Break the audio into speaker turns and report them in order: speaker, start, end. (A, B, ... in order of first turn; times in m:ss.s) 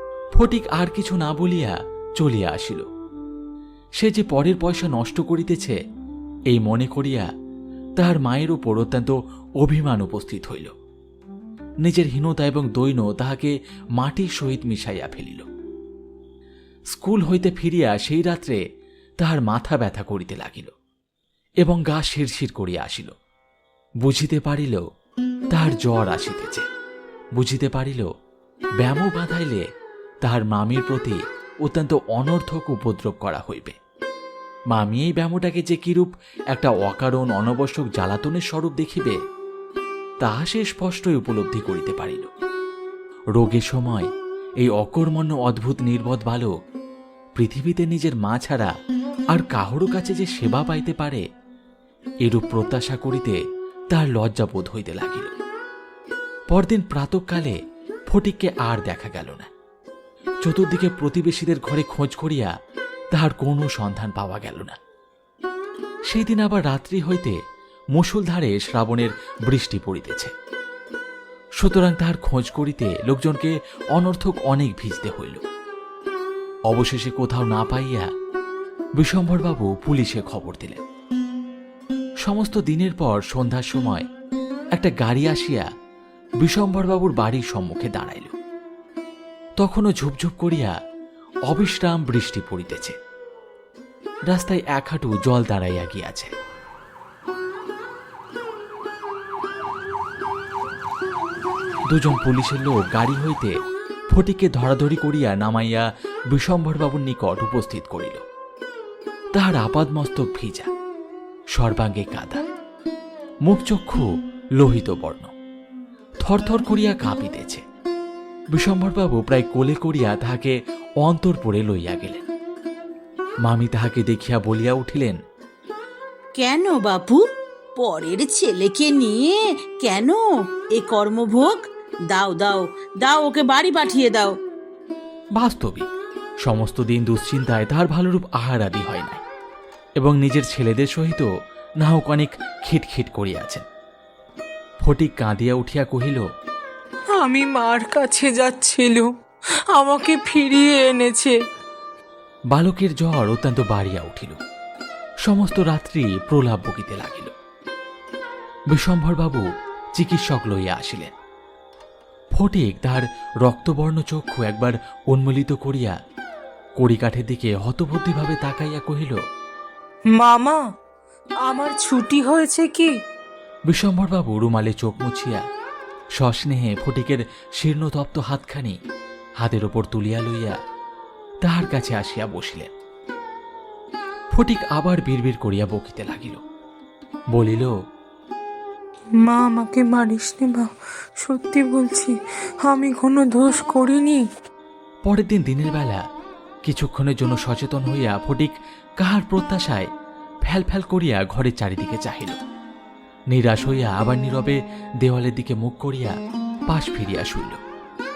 0:00.4-0:02.9 A
0:04.0-0:05.8 A
0:06.5-0:07.3 A
0:08.0-0:10.8 A
0:11.8-0:15.5 A
0:16.9-0:18.6 A
0:19.2-0:20.7 A
0:21.6-0:23.1 A
0:24.0-0:24.8 A
0:25.5-0:26.7 A
0:27.4-0:28.1 A
0:28.8-0:29.6 A
0:30.2-0:33.8 A
0:34.7-0:39.2 A
0:40.2-0:42.3 A
0:43.4-0:44.1 A
0:44.6-0:46.5 A
0:47.4-0:48.7 A
0:49.3-0:51.2 A
0:52.2-0:53.4 A
0:53.9-0:55.4 A
0:56.5-0:57.6 A
0:58.1-0:59.5 A
1:00.4-1:02.5 A
1:03.1-1:04.8 A
1:06.1-1:07.4 A
1:08.0-1:10.3 A
1:11.6-1:15.4 A
1:16.7-1:18.1 A
1:19.0-1:20.8 A
1:22.2-1:24.1 A
1:24.8-1:25.7 A
1:26.4-1:28.4 A
1:29.6-1:30.8 A
1:31.5-1:33.0 A
1:34.3-1:36.3 A
1:41.9-1:43.6 A
1:44.1-1:48.2 A
1:49.4-1:50.7 A
1:51.6-1:52.4 A
1:53.5-1:54.1 A
1:54.6-1:55.3 A
1:56.2-1:57.6 A
1:58.5-2:02.2 A
2:03.4-2:05.2 A
2:06.4-2:07.3 B
2:07.8-2:10.2 B
2:10.8-2:14.4 B
2:15.4-2:15.9 A
2:16.4-2:19.2 A
2:20.0-2:21.3 A
2:21.8-2:23.7 A
2:24.8-2:26.3 A
2:27.2-2:29.1 C
2:29.8-2:31.3 C
2:32.5-2:34.4 A
2:35.2-2:37.4 A
2:38.7-2:39.5 A
2:40.0-2:41.2 A
2:42.4-2:46.0 A
2:46.8-2:49.2 A
2:50.2-2:50.6 C
2:51.5-2:52.9 C
2:53.7-2:55.4 A
2:56.2-2:58.8 A
2:59.4-3:00.6 A
3:01.4-3:02.7 A
3:04.3-3:06.4 A
3:07.3-3:07.8 A
3:09.2-3:10.7 C
3:11.2-3:12.1 C
3:12.7-3:14.2 C
3:15.1-3:16.0 A
3:16.7-3:19.9 A
3:20.5-3:22.4 A
3:23.3-3:26.2 A
3:26.7-3:27.6 A